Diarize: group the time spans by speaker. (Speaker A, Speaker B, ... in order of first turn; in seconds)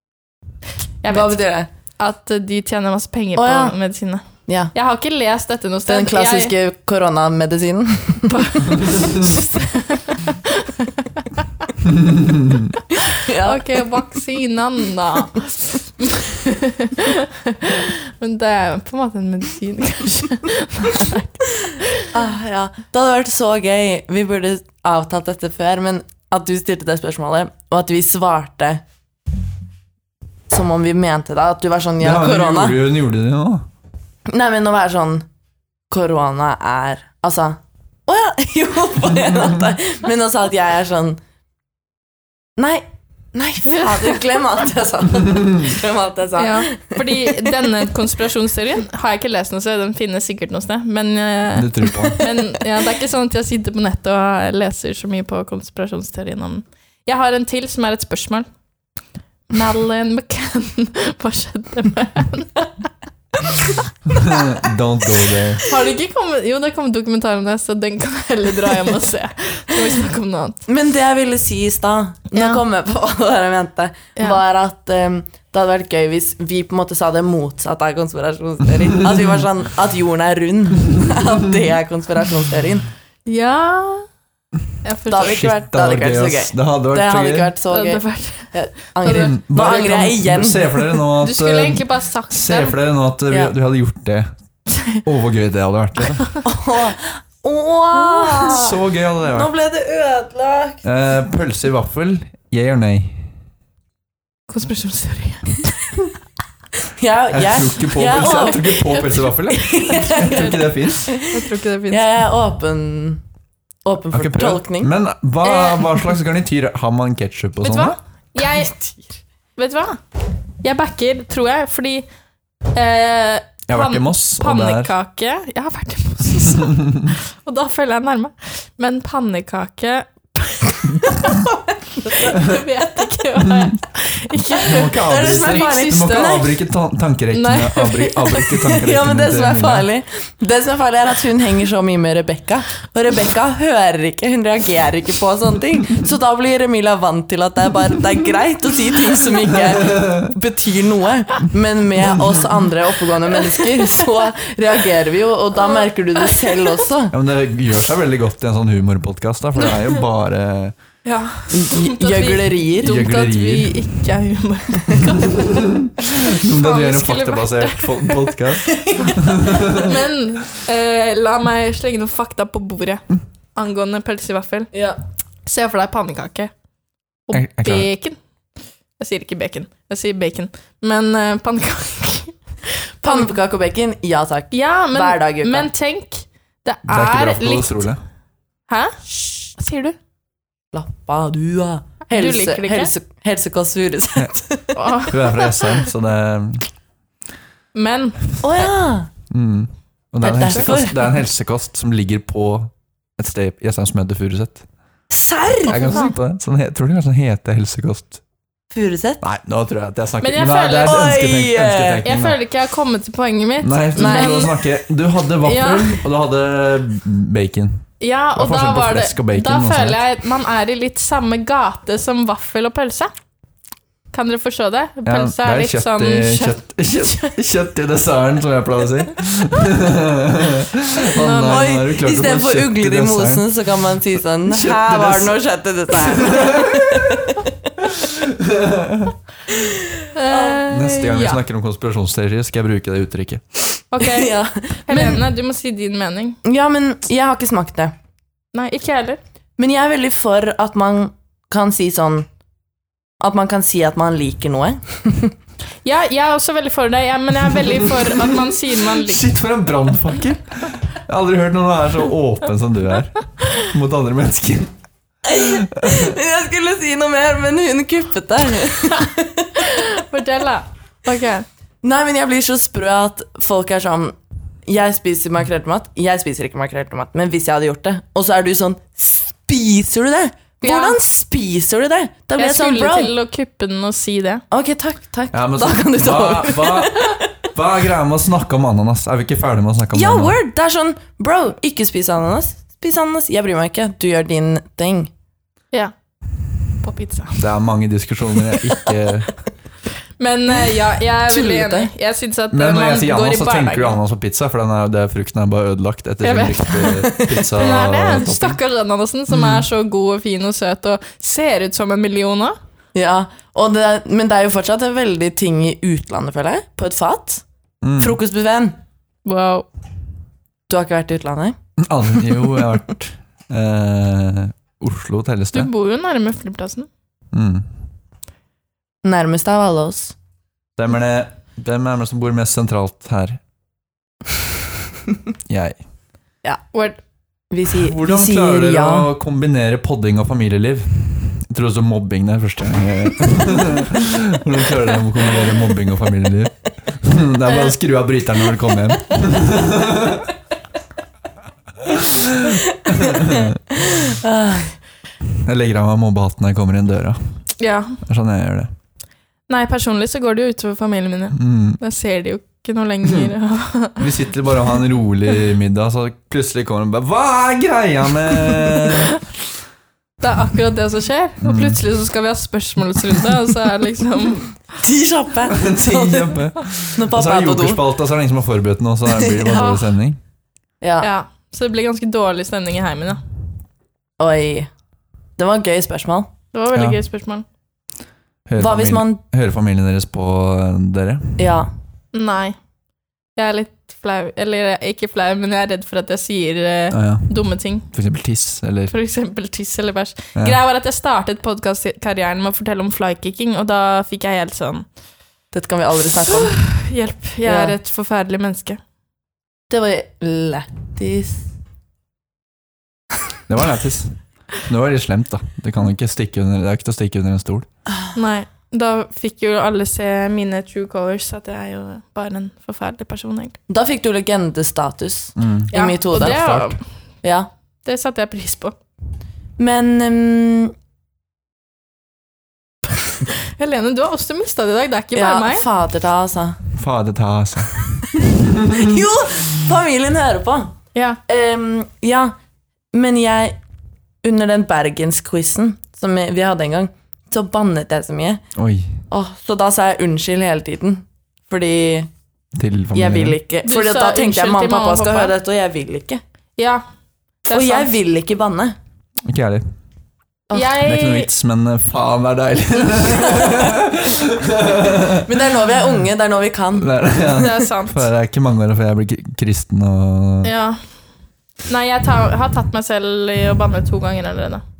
Speaker A: 1.0-1.3, 2.0-6.5, 8.3-11.7, 13.1-22.1, 43.6-44.2, 46.4-58.5, 59.5-62.7, 63.4-64.4, 65.7-70.6, 72.3-72.6, 83.2-84.1, 84.8-85.4, 87.7-89.3, 91.2-92.8, 94.7-95.0, 104.5-106.0, 109.8-110.5, 111.1-112.0, 115.4-116.0, 117.6-119.0, 119.5-120.0, 120.6-122.0, 122.7-131.4, 132.0-136.4, 137.3-138.5, 153.3-153.8, 156.2-156.7, 161.0-174.7, 175.4-176.5, 177.3-178.2, 179.0-183.3, 184.5-187.8, 188.7-189.9, 192.1-192.9, 194.7-195.8, 197.7-198.7, 200.4-200.7, 205.7-206.2, 210.2-211.1, 212.0-214.6, 215.4-216.0, 218.0-223.1, 224.1-227.3, 231.1-231.7, 240.1-241.4, 243.9-244.3, 244.8-246.4, 248.5-249.2, 255.8-259.2, 269.6-271.4, 280.6-281.0, 282.4-284.4, 296.8-297.4, 300.2-304.0, 306.2-312.6, 319.2-319.7, 325.5-326.9, 336.7-337.0, 357.6-358.0, 359.5-364.1, 370.2-374.5, 381.0-383.2, 386.5-387.4, 392.1-392.6, 393.4-397.9, 398.9-404.9, 406.2-408.8, 418.1-423.6, 425.7-426.8, 427.8-428.7, 433.2-435.7, 440.9-441.2, 453.6-455.3, 456.6-456.8, 457.4-457.9, 460.5-461.3, 467.4-468.1, 470.4-470.8, 471.6-474.6
Speaker B: 1.1-1.7, 3.4-3.8, 4.5-4.7, 5.8-8.8, 13.1-13.8, 22.1-28.8, 30.5-32.8, 34.3-35.2, 35.9-41.2, 42.6-47.6, 70.7-82.9, 85.1-91.0, 93.3-93.5, 96.4-100.8, 106.8-113.2, 113.8-114.9, 132.0-132.5, 134.7-136.5, 138.5-157.1, 161.5-163.0, 168.7-169.8, 174.7-175.0, 183.0-185.7, 190.7-194.8, 198.4-199.1, 200.2-201.1, 205.1-206.0, 208.7-209.2, 210.8-212.1, 213.9-214.6, 231.2-237.5, 239.5-240.6, 244.0-245.3, 246.4-247.9, 249.6-252.3, 253.2-255.3, 265.2-269.9, 271.8-283.1, 284.5-287.3, 289.9-295.1, 301.3-301.9, 307.0-307.4, 312.9-317.4, 318.0-318.8, 320.7-321.6, 322.4-322.8, 329.0-330.1, 337.5-339.1, 352.9-354.7, 374.8-376.4, 376.9-377.8, 379.1-379.7, 380.8-381.1, 384.2-384.7, 385.4-386.3, 388.6-389.2, 391.4-391.7, 405.5-406.5, 407.4-407.8, 409.7-411.5, 423.7-426.4, 427.2-427.5, 429.6-430.7, 435.1-436.6, 438.6-440.8, 441.3-442.3, 442.9-443.6, 444.2-448.4, 449.1-452.1, 452.9-456.2, 457.5-458.7, 460.5-460.8, 465.2-467.5
Speaker C: 11.8-12.7, 32.0-33.6, 51.5-52.2, 64.1-65.7, 85.2-87.5, 89.0-94.3, 95.0-96.3, 98.3-99.5, 100.8-103.3, 107.3-111.1, 114.1-118.0, 123.7-124.9, 126.7-127.0, 134.5-139.9, 149.7-150.3, 157.1-160.7, 162.8-163.8, 165.0-170.0, 177.3-177.9, 186.9-188.0, 195.1-196.7, 199.3-204.6, 205.7-208.2, 209.2-212.4, 213.6-220.0, 225.1-235.3, 235.9-239.1, 240.7-243.4, 258.9-264.7, 265.2-266.1, 285.3-290.4, 297.4-299.3, 302.5-308.6, 309.3-309.6, 317.8-318.2, 321.8-325.7, 327.3-327.7, 330.8-333.4, 335.5-335.8, 337.8-350.3, 351.8-353.6, 355.4-357.3, 358.0-358.7, 361.4-361.8, 364.0-369.2, 371.4-371.8, 375.5-380.2, 386.7-387.0, 388.5-391.4, 396.9-398.9, 413.5-417.6, 425.4-426.8, 436.7-438.9, 448.6-449.0, 452.5-453.4, 459.2-459.7, 460.8-465.3, 466.8-470.5